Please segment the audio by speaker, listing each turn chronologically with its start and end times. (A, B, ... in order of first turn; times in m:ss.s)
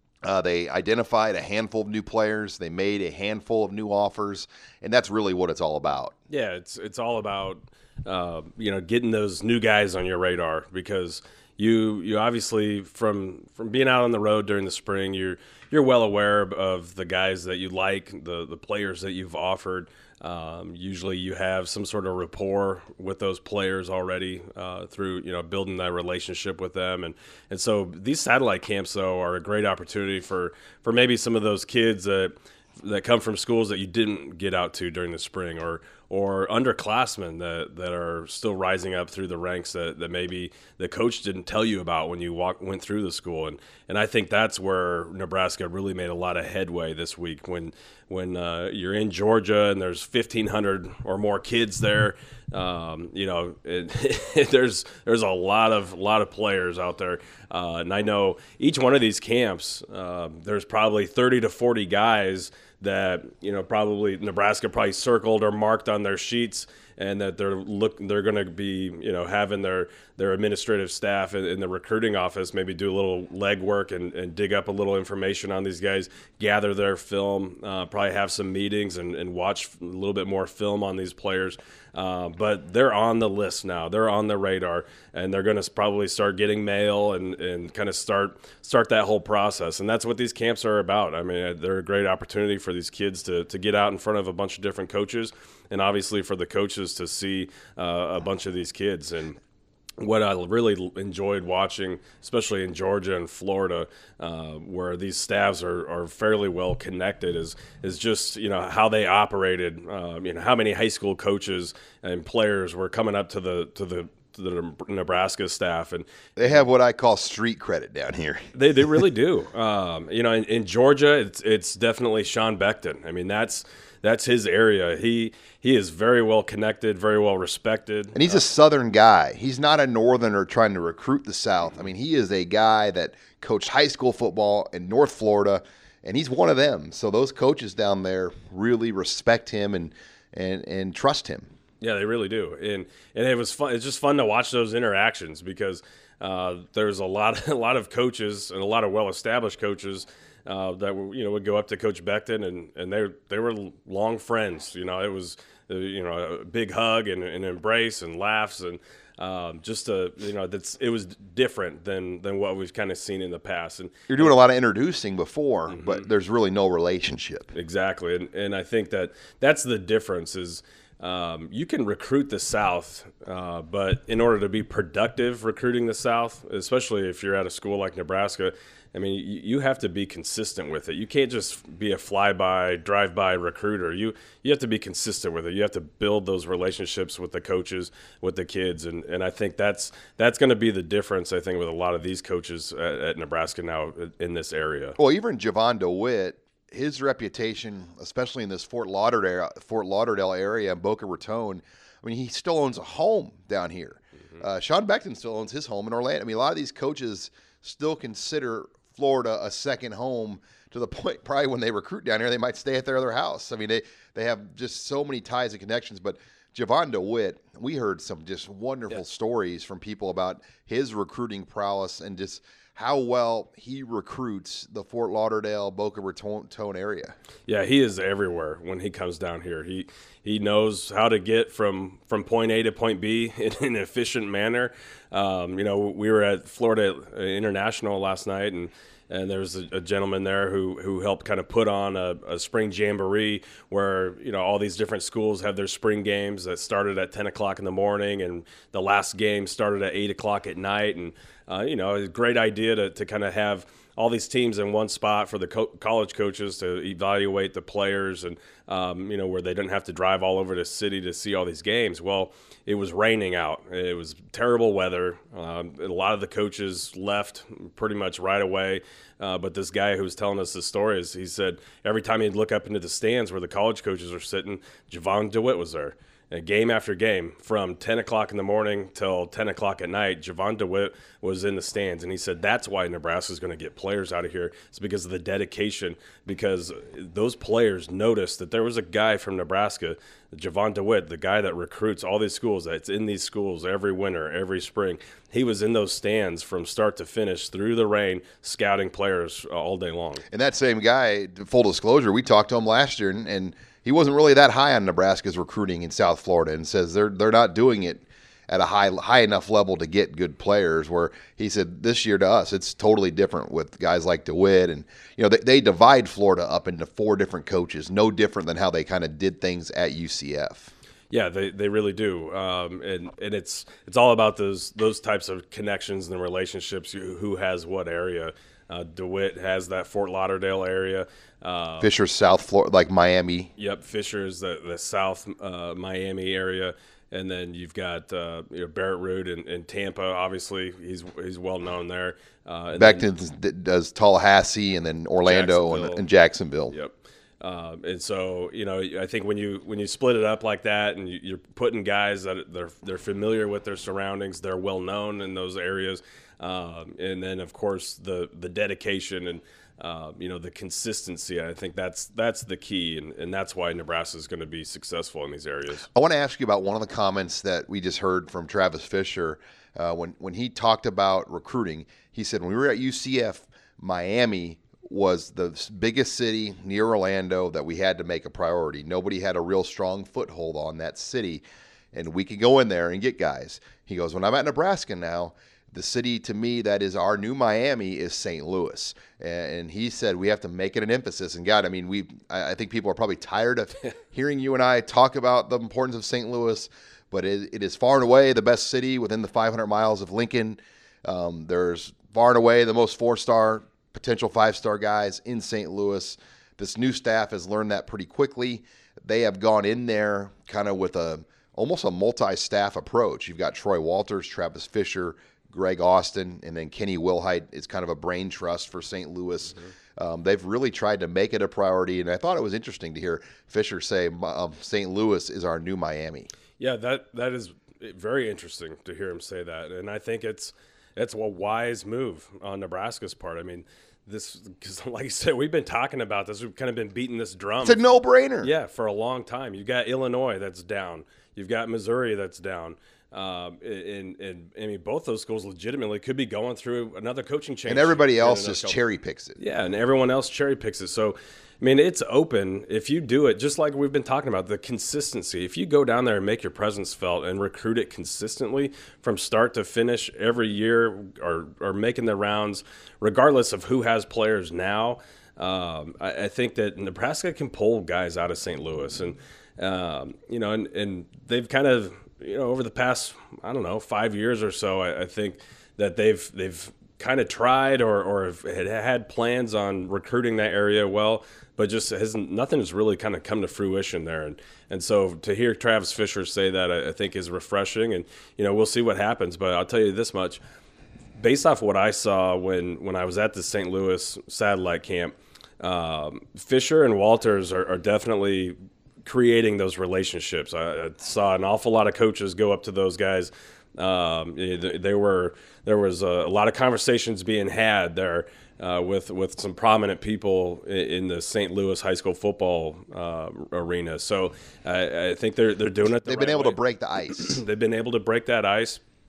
0:00.2-0:06.1 A
0:06.3-1:39.4 B
1:40.0-1:56.0 B
1:56.4-1:58.5 A
1:58.5-2:08.4 B
2:08.1-2:21.5 A
2:21.8-2:44.3 B
2:44.1-2:47.5 A
2:45.7-2:46.0 B
2:47.5-3:15.0 B
3:15.0-3:47.2 A
3:47.5-5:00.2 B
5:00.3-5:20.7 A
5:21.1-5:31.9 B
5:31.8-5:33.5 A
5:33.6-5:43.0 B
5:42.7-5:46.7 A
5:45.2-5:46.0 B
5:46.7-6:05.9 B
6:05.9-7:06.3 A
7:06.6-7:17.8 B
7:17.6-7:18.5 A
7:18.4-7:28.8 B
7:27.6-7:29.4 A
7:29.4-8:10.4 B
8:11.2-8:36.6 B
8:36.0-8:37.4 A
8:37.2-8:38.8 B